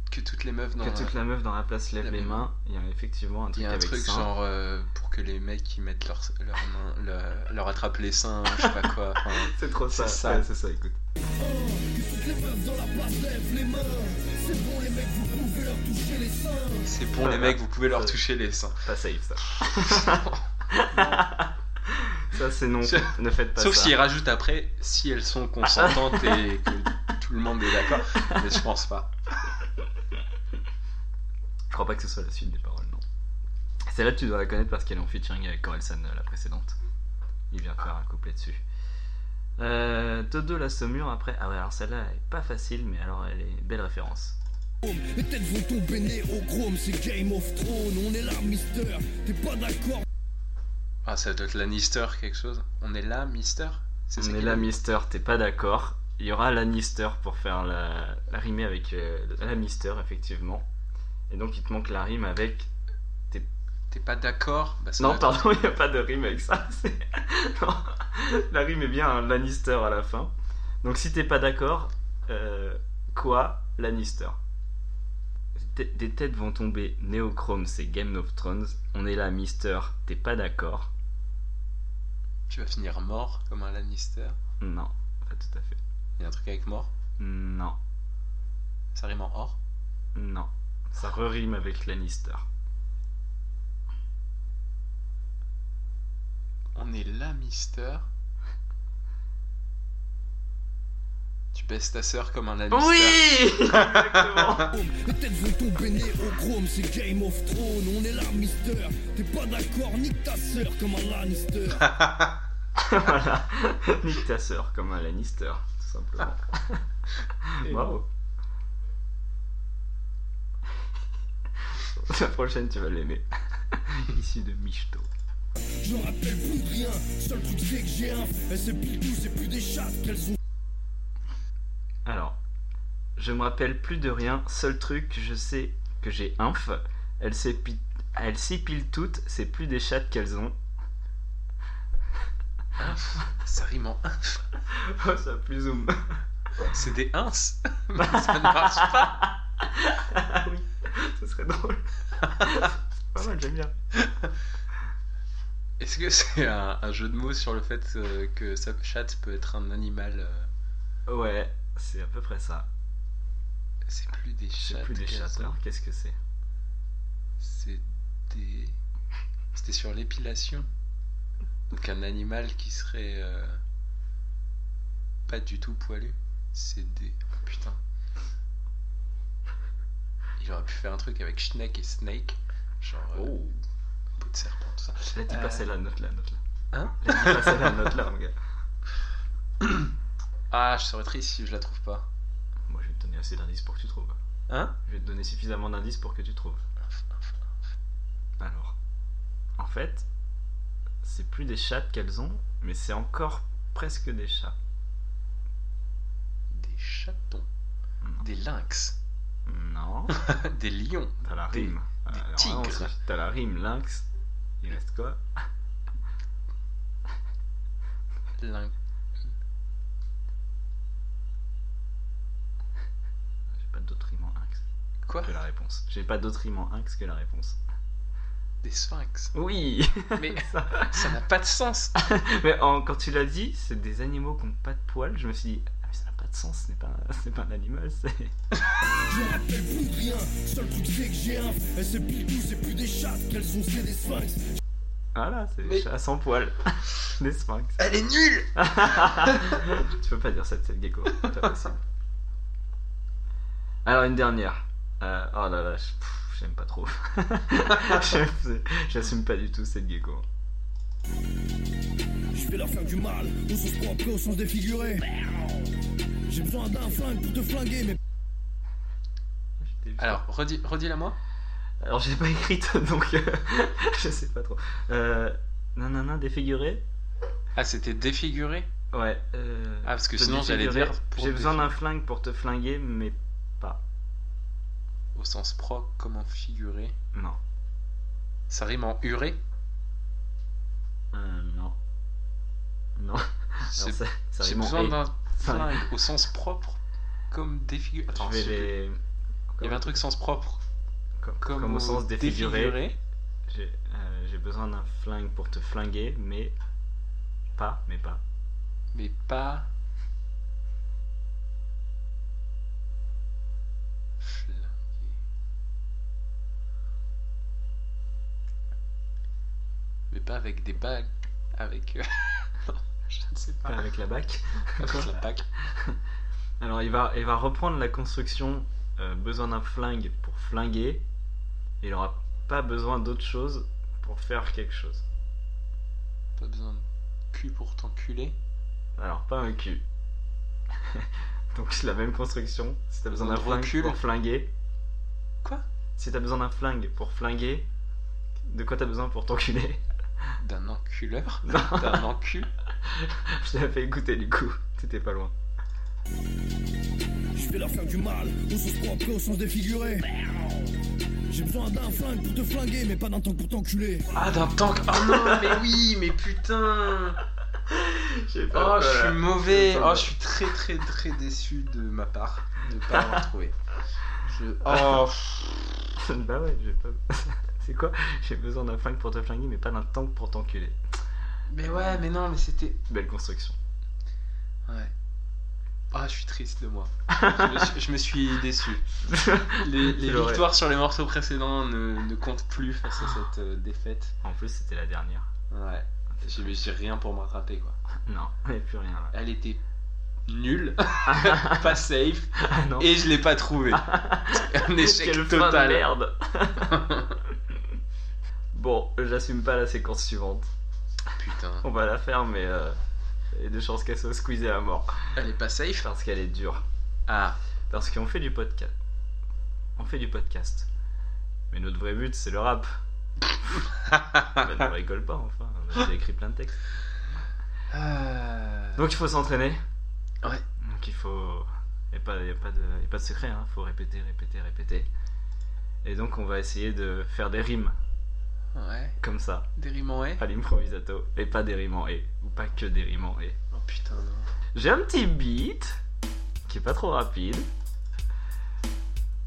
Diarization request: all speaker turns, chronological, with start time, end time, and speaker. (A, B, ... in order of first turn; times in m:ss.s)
0:00.1-0:01.2 A
0:00.8-0:04.3 B
0:02.0-0:02.5 A
0:03.5-0:10.5 A
0:09.3-0:11.0 B
0:11.4-0:16.9 C
0:16.8-0:18.8 A
0:17.2-0:18.2 B
0:18.8-0:24.0 B
0:19.5-0:21.3 A
0:22.8-0:29.1 A
0:25.6-0:26.5 B
0:27.9-0:28.5 B
0:31.7-0:33.0 B
0:33.9-0:36.8 B
0:37.5-0:38.6 B
0:39.6-0:44.4 B
0:44.8-0:50.0 C
0:51.0-0:54.7 A
0:54.2-1:00.6 B
1:01.3-1:02.7 B
1:03.9-1:05.6 A
1:05.0-1:14.4 B
1:15.5-1:20.9 B
1:22.5-1:24.4 A
1:24.6-1:25.8 B
1:26.2-1:26.9 A
1:27.2-1:27.8 B
1:28.9-1:29.6 A
1:30.1-1:32.4 B
1:36.7-1:38.0 A
1:41.5-1:44.6 A
1:42.7-1:44.7 B
1:44.7-1:51.9 C
1:51.8-1:52.4 A
1:52.8-1:56.8 B
1:57.4-1:58.0 B
1:57.6-1:58.0 A
2:01.6-2:05.1 B
2:05.8-2:10.4 C
2:12.0-2:12.4 B
2:13.2-2:20.5 B
2:22.8-2:24.4 A
2:24.7-2:26.2 B
2:26.7-2:29.2 A
2:28.0-2:33.7 B
2:32.3-2:32.6 A
2:34.0-2:34.3 A
2:35.8-2:40.5 A
2:41.1-2:42.7 B
2:43.9-2:45.6 A
2:44.6-2:46.2 B
2:47.4-2:48.8 A
2:49.5-2:50.7 A
2:51.7-2:53.6 A
2:55.3-2:57.8 A
3:00.4-3:03.3 A
3:03.1-3:03.6 B
3:04.2-3:05.7 A
3:05.1-3:06.4 B
3:06.7-3:07.9 A
3:07.0-3:08.4 B
3:09.6-3:09.9 A
3:10.5-3:12.1 A
3:12.7-3:14.2 B
3:14.5-3:14.7 A
3:14.8-3:16.6 B
3:16.9-3:17.4 A
3:18.4-3:18.8 B
3:19.6-3:20.0 B
3:21.0-3:24.6 B
3:26.5-3:27.5 A
3:28.2-3:29.0 A
3:29.4-3:30.2 B
3:30.1-3:32.9 A
3:31.2-3:34.1 B
3:34.6-3:35.2 B
3:38.4-3:38.7 A
3:43.5-3:44.6 B
3:45.0-3:45.4 A
3:45.2-3:47.6 B
3:48.6-3:49.3 A
3:49.3-3:51.2 B
3:50.2-3:51.9 A
3:52.0-3:58.3 B
3:59.0-4:04.4 C
4:05.1-4:07.8 B
4:07.8-4:09.6 A
4:08.6-4:11.8 B
4:11.2-4:11.7 A
4:13.8-4:20.2 B
4:22.3-4:25.7 C
4:26.3-4:28.0 C
4:29.6-4:30.2 B
4:30.0-4:31.2 A
4:31.8-4:36.8 B
4:37.6-4:38.7 A
4:38.9-4:43.8 B
4:39.8-4:41.7 A
4:45.1-4:46.9 A
4:47.1-4:47.4 B
4:48.5-4:49.4 A
4:51.1-4:51.8 B
4:53.0-4:55.9 B
4:53.7-4:56.8 A
4:57.3-4:58.7 A
4:58.1-4:59.0 B
4:59.5-4:59.9 B
4:59.6-5:00.6 A
5:01.2-5:02.8 B
5:01.4-5:03.0 A
5:03.5-5:06.5 B
5:07.5-5:08.2 B
5:08.9-5:09.7 A
5:14.2-5:15.2 A
5:20.1-5:23.8 A
5:23.6-5:26.0 B
5:24.8-5:25.4 A
5:26.6-5:31.0 B
5:31.8-5:35.0 B
5:36.4-5:38.3 A
5:39.0-5:39.8 B
5:40.8-5:44.5 B
5:43.1-5:44.0 A
5:46.0-5:47.7 B
5:48.4-5:49.8 B
5:50.4-5:52.5 A
5:51.4-5:52.1 B
5:52.8-5:55.3 B
5:57.3-6:00.7 C
6:01.3-6:04.1 C
6:04.1-6:07.2 A
6:05.0-6:05.6 B
6:07.7-6:10.1 B
6:08.5-6:13.5 A
6:12.9-6:13.2 B
6:14.1-6:15.6 A
6:14.6-6:15.0 B
6:16.0-6:20.8 B
6:21.5-6:22.8 A
6:21.7-6:22.0 B
6:22.9-6:23.6 B
6:24.7-6:24.9 A
6:25.9-6:28.9 A
6:27.1-6:27.7 B
6:29.0-6:30.5 B
6:29.5-6:34.1 A
6:34.2-6:35.3 B
6:35.5-6:37.8 A
6:36.1-6:36.6 B
6:38.0-6:39.1 B
6:39.1-6:39.6 A
6:40.3-6:45.9 A
6:41.0-6:41.8 B
6:42.4-6:43.0 B
6:43.7-6:47.6 B
6:46.7-6:47.2 A
6:48.5-6:50.5 B
6:51.2-6:51.6 A
6:51.6-6:52.8 B
6:53.3-6:55.1 B
6:55.1-6:55.9 A
6:55.8-6:56.6 B
6:57.1-6:57.4 A
6:57.7-6:58.7 B
6:59.8-7:00.7 B
7:01.5-7:02.7 B
7:03.8-7:04.4 A
7:04.3-7:06.6 B
7:07.7-7:08.8 A
7:08.8-7:09.6 B
7:10.6-7:14.9 B
7:15.8-7:17.8 B
7:18.5-7:19.0 A
7:19.0-7:19.5 B
7:19.5-7:20.2 A
7:20.2-7:23.4 B
7:23.5-7:24.3 A
7:24.5-7:25.8 B
7:26.4-7:27.5 B